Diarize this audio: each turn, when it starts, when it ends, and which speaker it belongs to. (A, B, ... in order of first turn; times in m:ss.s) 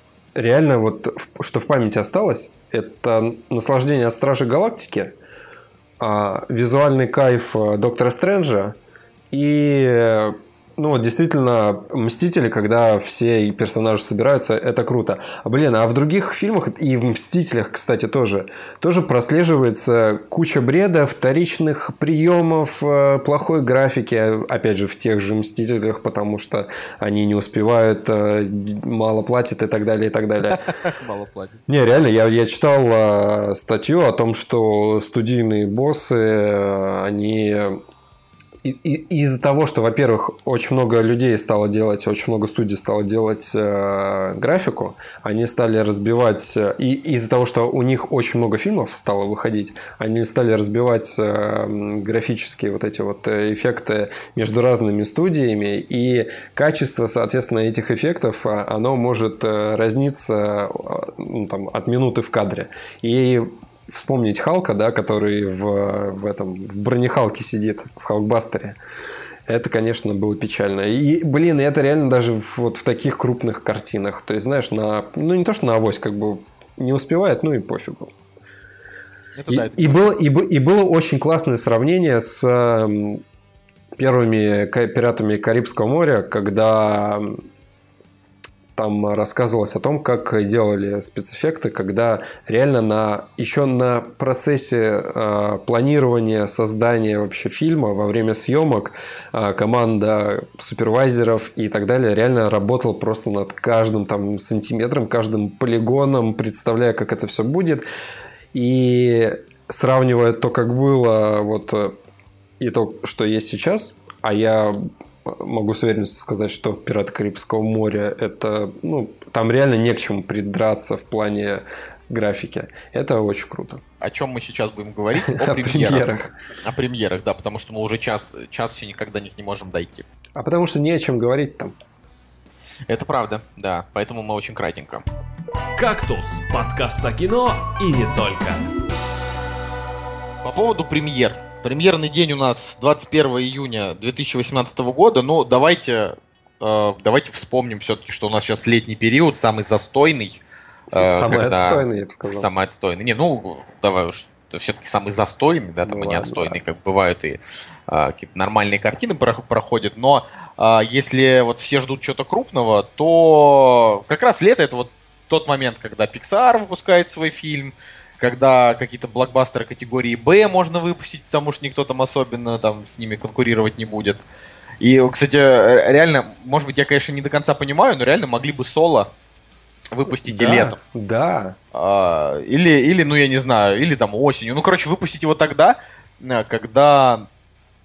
0:00.4-0:05.1 A
0:06.0-0:08.8 A
0:09.3-0:30.6 A
0:30.5-0:31.6 B
0:31.7-0:37.8 A
0:38.6-1:08.8 A
1:09.5-1:18.1 A
1:19.4-1:20.1 B
1:19.5-1:23.2 A
1:24.0-1:27.4 A
1:28.8-1:47.8 A
1:48.5-1:52.0 A
1:52.6-2:03.8 A
2:04.0-2:06.0 B
2:05.2-2:06.3 A
2:06.6-2:10.1 B
2:10.4-2:11.8 A
2:12.9-2:15.0 B
2:15.8-2:18.7 C
2:20.4-2:30.4 B
2:30.9-2:32.5 A
2:30.9-2:54.2 B
2:35.8-2:36.6 A
2:54.8-2:59.1 B
2:59.9-3:00.8 B
3:00.1-3:01.6 A
3:01.7-3:07.3 B